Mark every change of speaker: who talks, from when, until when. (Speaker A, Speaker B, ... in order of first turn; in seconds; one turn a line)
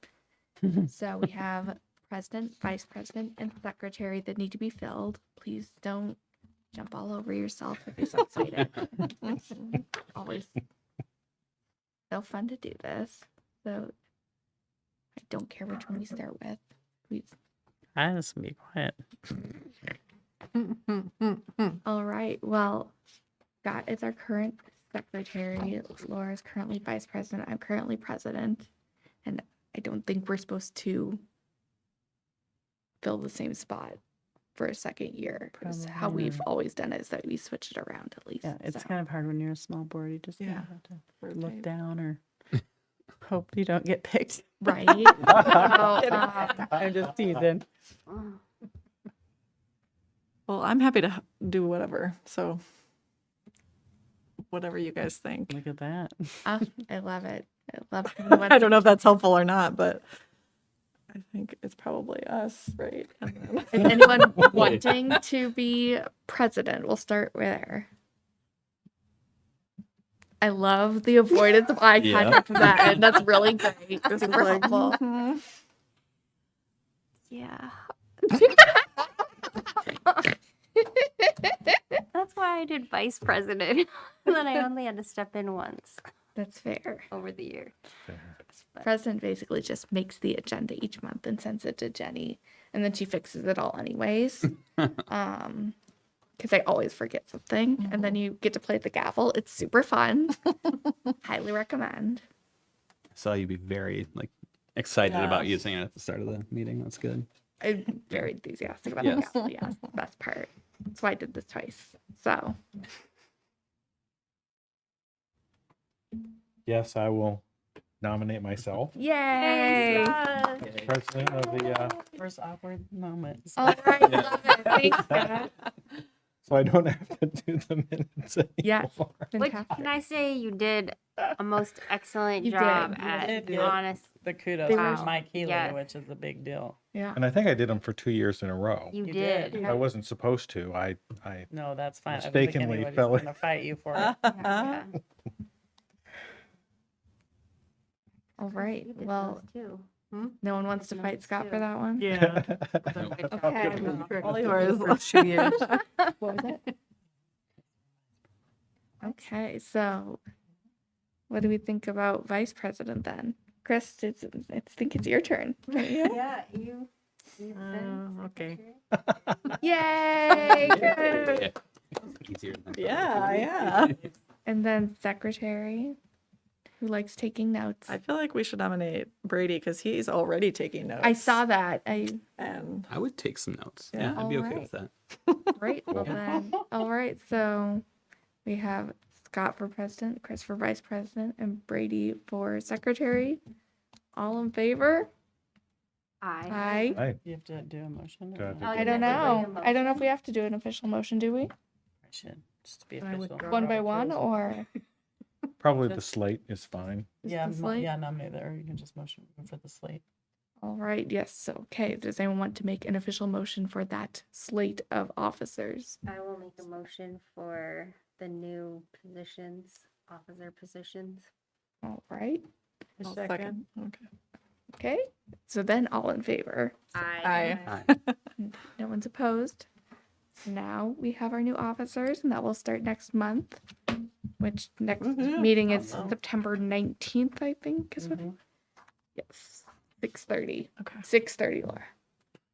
Speaker A: 0.8-6.2
Speaker A: 6.7-10.6
Speaker A: 12.1-13.9
Speaker A: 15.2-17.3
Speaker B: 17.9-19.0
Speaker A: 21.8-22.9
Speaker A: 23.6-28.7
Speaker A: 29.2-31.2
Speaker A: 33.0-34.0
Speaker A: 34.5-38.9
Speaker B: 35.5-36.5
Speaker B: 38.4-42.2
Speaker C: 40.4-40.7
Speaker C: 41.2-41.5
Speaker B: 43.2-47.6
Speaker A: 44.6-46.7
Speaker D: 48.1-48.4
Speaker C: 50.5-52.6
Speaker C: 54.5-55.6
Speaker B: 55.5-56.4
Speaker A: 56.4-58.8
Speaker C: 58.2-60.0
Speaker C: 61.1-64.6
Speaker A: 63.7-67.9
Speaker E: 64.5-64.9
Speaker A: 70.4-75.0
Speaker E: 72.0-73.0
Speaker C: 74.0-75.4
Speaker D: 77.3-77.8
Speaker D: 82.1-86.0
Speaker A: 86.3-87.1
Speaker D: 87.1-87.7
Speaker D: 88.5-88.9
Speaker A: 88.8-95.7
Speaker A: 96.4-100.5
Speaker A: 101.2-102.2
Speaker E: 103.1-107.3
Speaker C: 105.0-105.6
Speaker A: 107.6-112.6
Speaker E: 109.0-109.3
Speaker F: 116.7-117.4
Speaker F: 118.0-118.9
Speaker A: 119.0-120.2
Speaker D: 119.3-120.8
Speaker F: 120.6-122.0
Speaker D: 121.4-121.9
Speaker B: 122.1-124.3
Speaker A: 123.6-125.5
Speaker E: 124.1-124.3
Speaker F: 124.8-125.4
Speaker F: 126.4-129.3
Speaker A: 128.6-129.9
Speaker D: 129.4-135.8
Speaker A: 132.4-133.5
Speaker B: 133.0-136.8
Speaker A: 134.7-135.1
Speaker A: 136.9-137.2
Speaker F: 137.1-139.0
Speaker D: 138.9-139.8
Speaker B: 139.0-139.8
Speaker F: 139.6-141.5
Speaker B: 141.5-144.2
Speaker F: 142.1-143.3
Speaker C: 143.9-144.8
Speaker D: 144.4-144.9
Speaker A: 148.4-149.4
Speaker D: 148.5-150.1
Speaker A: 150.4-152.1
Speaker D: 150.8-151.7
Speaker B: 152.0-155.6
Speaker F: 152.1-153.6
Speaker E: 153.0-153.4
Speaker A: 153.3-154.2
Speaker C: 153.6-155.8
Speaker A: 156.2-156.6
Speaker A: 159.0-160.2
Speaker A: 161.3-166.2
Speaker D: 166.0-168.8
Speaker C: 167.5-168.6
Speaker A: 169.6-171.4
Speaker D: 170.4-171.2
Speaker C: 170.5-171.4
Speaker E: 170.9-174.1
Speaker C: 172.7-174.0
Speaker A: 174.4-176.0
Speaker A: 176.8-178.0
Speaker C: 177.9-181.4
Speaker A: 181.0-182.2
Speaker C: 182.4-182.9
Speaker E: 182.9-184.9
Speaker C: 183.9-184.2
Speaker A: 184.1-184.7
Speaker A: 185.6-187.8
Speaker F: 185.9-186.2
Speaker A: 188.4-193.4
Speaker A: 194.2-195.1
Speaker D: 196.2-196.9
Speaker A: 196.5-197.0
Speaker F: 196.9-197.2
Speaker B: 197.2-199.2
Speaker F: 198.3-199.5
Speaker D: 198.6-200.0
Speaker A: 198.7-201.5
Speaker B: 202.0-204.2
Speaker C: 203.0-203.4
Speaker A: 203.5-204.7
Speaker F: 205.6-207.1
Speaker B: 205.8-206.1
Speaker A: 207.2-207.9
Speaker B: 207.2-210.0
Speaker A: 210.6-216.0
Speaker D: 216.0-221.3
Speaker A: 221.8-222.4
Speaker D: 223.0-223.5
Speaker C: 223.0-224.1
Speaker A: 224.8-226.8
Speaker D: 226.9-227.8
Speaker C: 227.2-228.2
Speaker A: 228.4-229.7
Speaker A: 230.4-233.6
Speaker A: 234.4-238.2
Speaker C: 235.0-236.1
Speaker B: 238.0-238.3
Speaker A: 239.2-241.9
Speaker C: 240.8-241.0